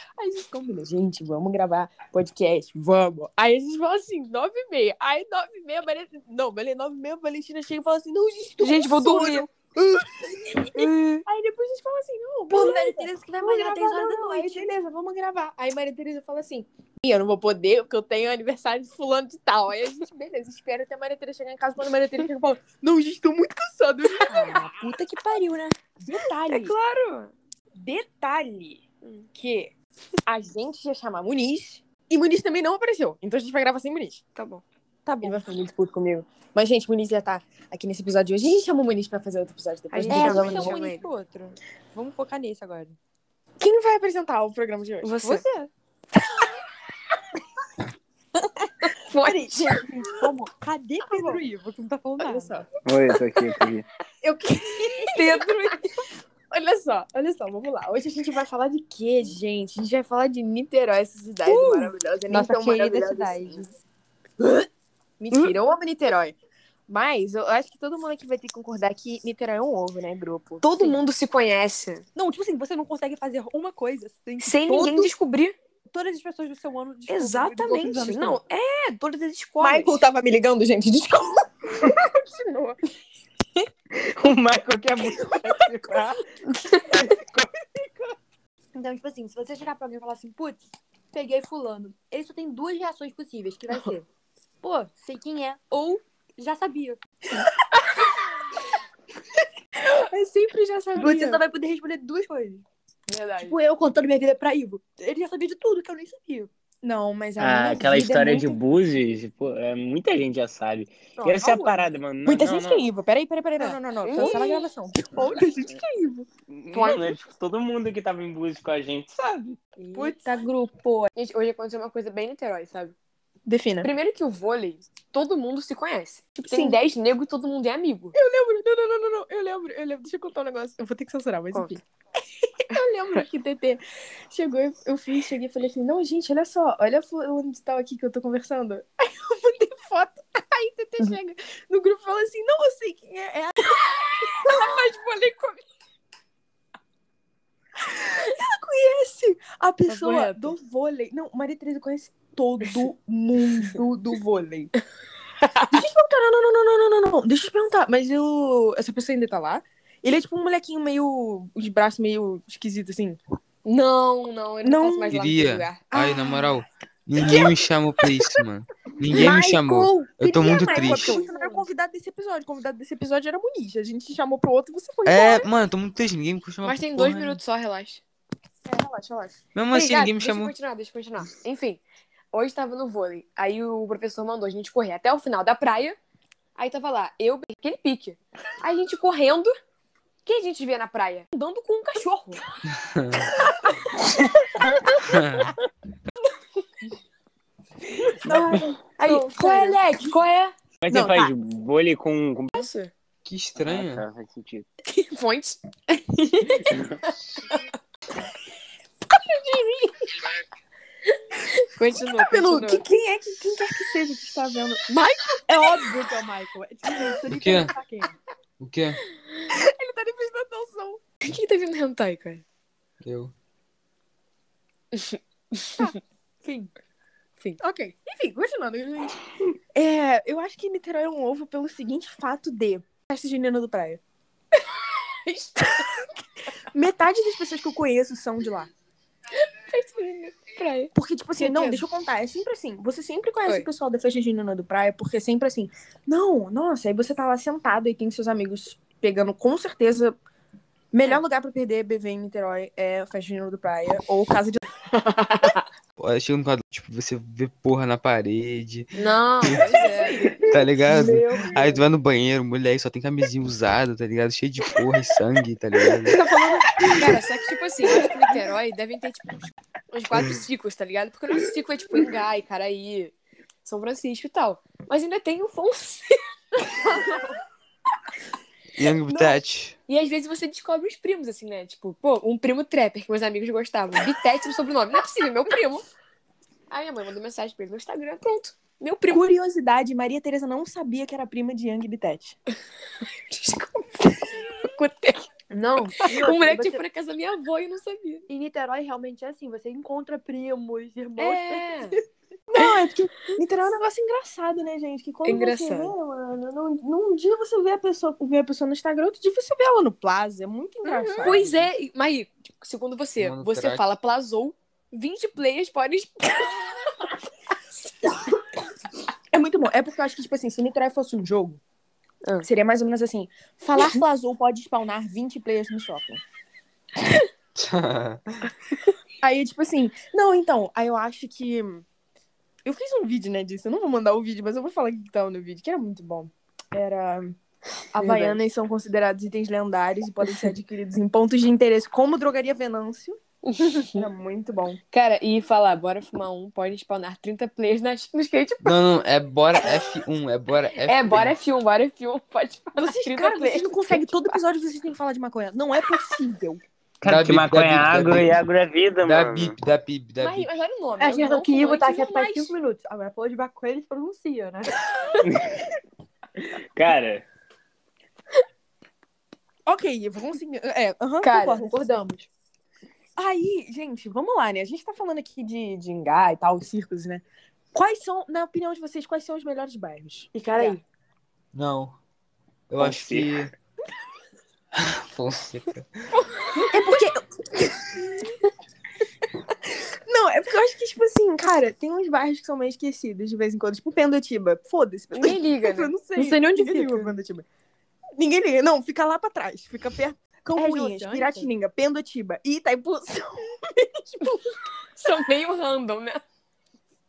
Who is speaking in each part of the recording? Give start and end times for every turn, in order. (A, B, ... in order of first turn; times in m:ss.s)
0:00.2-0:24.6 A
0:08.6-0:09.5 B
0:10.8-0:11.2 B
0:12.5-0:14.7 C
0:24.3-0:25.7 C
0:26.0-0:26.7 A
0:26.5-0:27.3 B
0:27.8-0:28.8 A
0:29.3-0:29.7 A
0:30.2-0:34.2 A
0:34.3-0:34.6 B
0:35.0-0:35.4 C
0:35.2-0:40.8 A
0:39.9-0:41.0 B
0:40.0-0:43.0 C
0:43.6-0:45.2 A
0:45.0-0:45.5 B
0:45.2-0:45.7 C
0:48.8-0:49.8 B
0:49.2-0:52.6 C
0:52.2-0:52.6 A
0:52.8-0:53.8 D
0:54.2-0:55.1 A
0:55.1-0:55.9 B
0:55.1-0:55.7 C
0:56.5-1:03.6 A
1:01.4-1:03.7 C
1:05.2-1:06.3 A
1:06.9-1:11.0 A
1:10.6-1:12.0 B
1:12.1-1:15.1 C
1:14.4-1:15.6 B
1:15.9-1:18.4 C
1:17.1-1:20.0 B
1:19.6-1:22.8 A
1:24.0-1:26.2 D
1:25.0-1:25.9 A
1:26.5-1:27.0 B
1:27.0-1:27.4 D
1:28.7-1:30.6 C
1:31.1-1:34.0 C
1:34.6-1:37.0 C
1:40.1-1:41.4 A
1:40.9-1:42.6 C
1:43.1-1:43.6 B
1:43.4-1:46.5 C
1:46.8-1:48.6 A
1:47.4-1:52.9 D
1:51.2-1:51.7 C
1:52.2-1:56.3 A
1:53.6-1:55.5 C
1:54.0-1:54.7 B
1:56.5-1:59.6 D
1:56.7-1:57.1 B
1:59.8-2:00.2 C
2:01.0-2:02.9 B
2:03.4-2:03.9 A
2:03.8-2:08.2 B
2:06.4-2:06.8 A
2:08.1-2:11.8 A
2:12.7-2:23.6 A
2:24.2-2:25.6 B
2:28.0-2:34.7 A
2:29.9-2:30.5 B
2:35.4-2:35.7 B
2:35.7-2:43.2 A
2:43.6-2:45.8 B
2:44.6-2:45.2 A
2:45.1-2:51.2 E
2:45.9-2:46.5 A
2:47.2-2:47.5 A
2:49.0-2:55.5 A
2:50.7-2:51.6 C
2:50.8-2:51.2 B
2:55.0-2:57.4 E
2:56.6-2:58.0 B
2:58.6-2:59.4 A
2:59.5-3:00.5 E
2:59.7-3:01.8 B
3:02.3-3:06.0 B
3:06.6-3:09.5 B
3:10.2-3:12.4 B
3:12.7-3:13.3 E
3:15.1-3:15.5 E
3:18.0-3:20.1 A
3:18.2-3:18.7 D
3:19.0-3:20.5 B
3:20.8-3:22.7 D
3:20.9-3:21.3 A
3:22.5-3:22.9 B
3:23.2-3:24.0 E
3:23.6-3:24.6 D
3:24.9-3:27.7 B
3:29.4-3:29.9 A
3:31.4-3:32.8 B
3:32.1-3:34.8 A
3:34.9-3:35.4 B
3:35.5-3:38.1 C
3:37.3-3:37.7 E
3:38.6-3:39.0 E
3:39.5-3:41.0 A
3:41.2-3:42.4 B
3:43.0-3:43.3 E
3:44.9-3:45.9 B
3:45.8-3:46.7 C
3:47.6-3:49.2 A
3:49.7-3:54.0 A
3:55.2-3:56.0 B
3:56.7-3:58.7 A
3:59.3-4:01.8 B
4:00.9-4:10.2 A
4:10.9-4:14.6 A
4:16.0-4:19.6 E
4:18.9-4:20.3 B
4:19.8-4:20.3 A
4:20.5-4:26.2 E
4:20.8-4:21.8 C
4:26.1-4:27.2 A
4:26.9-4:29.4 B
4:29.9-4:33.1 B
4:33.6-4:36.6 B
4:38.7-4:39.8 E
4:39.1-4:45.8 B
4:46.7-4:49.2 B
4:49.1-4:52.4 A
4:53.0-4:58.3 B
4:55.5-4:56.8 C
4:58.3-5:02.0 C
5:01.2-5:02.0 B
5:02.5-5:11.4 A
5:05.2-5:05.9 B
5:10.8-5:16.7 B
5:11.3-5:11.7 E
5:13.2-5:13.8 E
5:19.3-5:21.6 A
5:22.4-5:26.2 A
5:27.6-5:28.4 E
5:29.2-5:31.8 A
5:32.6-5:37.4 A
5:37.9-5:43.2 A
5:38.0-5:38.4 B
5:43.5-5:44.0 B
5:43.7-5:44.8 A
5:44.9-5:48.8 B
5:48.6-5:51.3 E
5:50.8-5:54.4 B
5:52.8-5:56.6 A
5:57.0-5:59.6 D
5:57.0-5:58.4 E
5:59.0-6:00.5 E
6:00.2-6:02.6 B
6:01.0-6:05.2 C
6:05.2-6:05.6 D
6:06.4-6:07.2 D
6:09.6-6:11.5 A
6:11.2-6:11.7 B
6:11.4-6:12.3 C
6:13.2-6:20.7 A
6:20.3-6:20.8 C
6:21.5-6:21.9 E
6:22.7-6:23.5 E
6:22.8-6:23.4 D
6:24.8-6:25.9 E
6:26.6-6:28.3 A
6:30.0-6:37.4 A
6:35.1-6:35.9 B
6:36.1-6:37.2 C
6:38.2-6:44.4 A
6:40.5-6:41.5 C
6:45.0-6:46.2 B